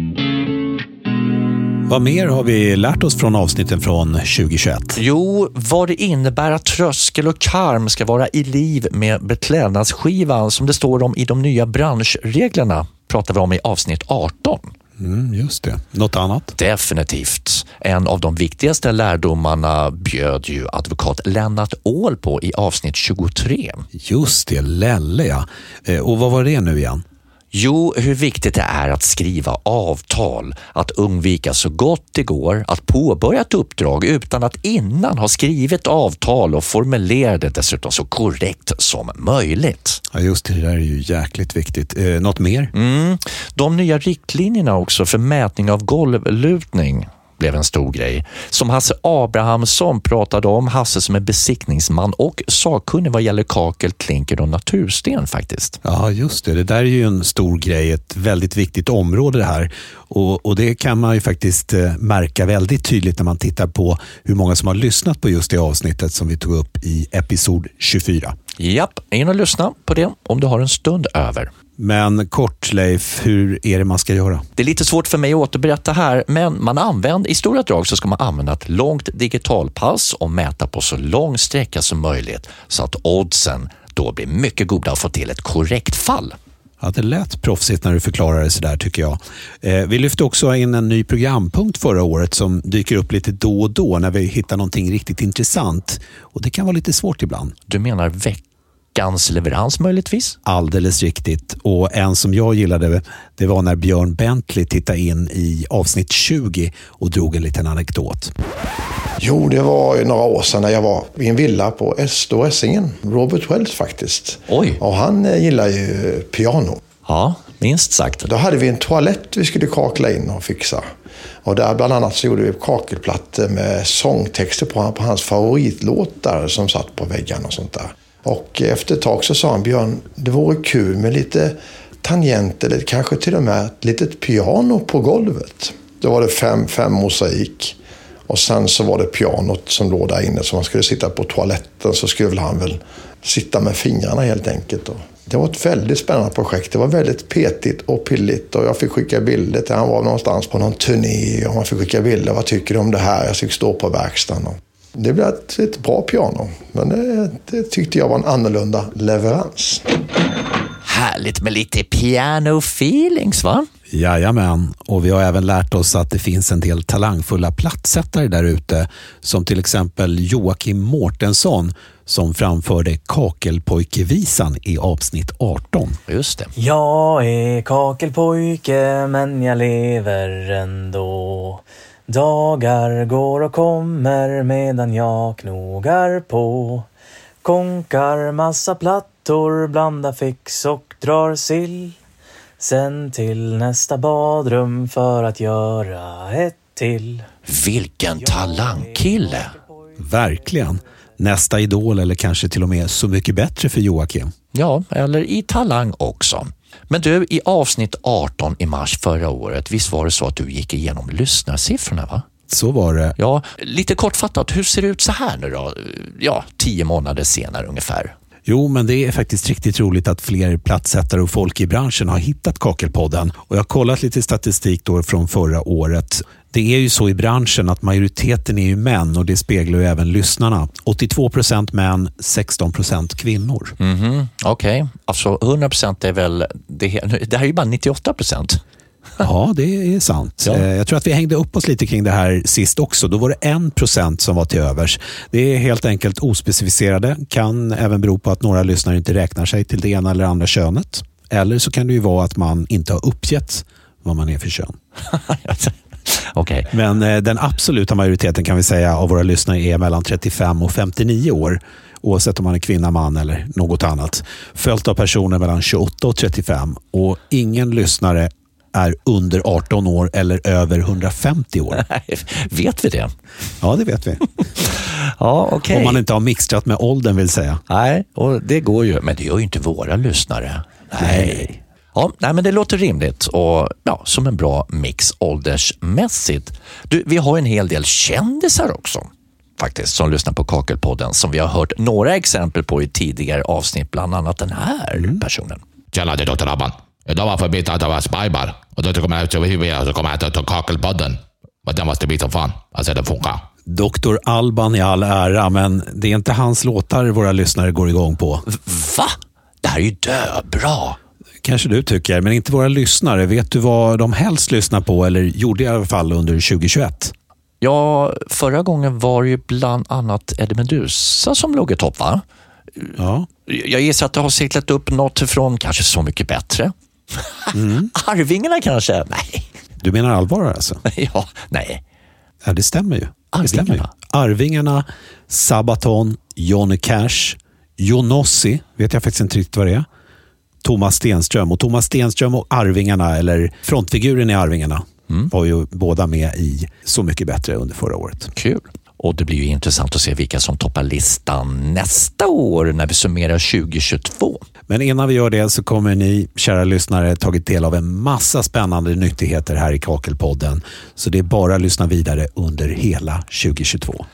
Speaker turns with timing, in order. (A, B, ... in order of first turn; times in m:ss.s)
0:01.9-0:05.0 A
0:05.0-0:14.7 B
0:15.0-0:16.5 A
0:16.6-0:23.9 B
0:23.9-0:27.0 A
0:27.5-0:40.0 B
0:40.1-0:42.7 A
0:42.7-0:55.8 B
0:55.8-1:08.4 A
1:08.6-1:11.5 B
1:11.8-1:14.5 A
1:14.6-1:26.4 B
1:26.8-1:37.6 A
1:37.7-1:38.4 B
1:39.0-1:40.4 B
1:40.4-1:48.3 A
1:49.2-1:56.8 C
1:54.5-1:54.8 B
1:57.1-1:58.3 B
1:58.3-2:00.9 C
2:01.4-2:17.8 C
2:18.3-2:39.9 C
2:40.8-2:43.7 B
2:43.9-2:56.0 A
2:56.1-2:56.5 B
2:56.6-3:06.9 D
3:07.4-3:12.0 D
3:12.6-3:17.3 D
3:17.5-3:19.5 B
3:18.2-3:20.8 D
3:20.0-3:24.3 A
3:24.5-3:32.2 B
3:32.5-3:33.2 A
3:33.2-3:38.1 B
3:38.5-3:53.8 A
3:53.8-3:58.6 B
3:59.2-4:14.8 A
4:00.4-4:00.6 B
4:15.1-4:16.7 B
4:16.7-4:31.8 A
4:31.7-4:33.1 B
4:33.6-4:34.2 A
4:34.8-4:36.0 B
4:35.7-4:37.6 A
4:37.7-4:55.6 B
4:41.0-4:41.6 A
4:55.9-5:03.4 E
5:03.7-5:08.4 A
5:08.5-5:11.0 B
5:11.4-5:17.1 A
5:17.6-5:22.2 B
5:22.8-5:29.5 B
5:23.0-5:23.3 A
5:27.5-5:27.9 A
5:29.8-5:30.8 A
5:30.9-5:31.8 B
5:32.4-5:39.9 A
5:33.3-5:33.9 B
5:40.6-5:48.3 A
5:48.4-5:54.4 B
5:54.7-6:04.1 A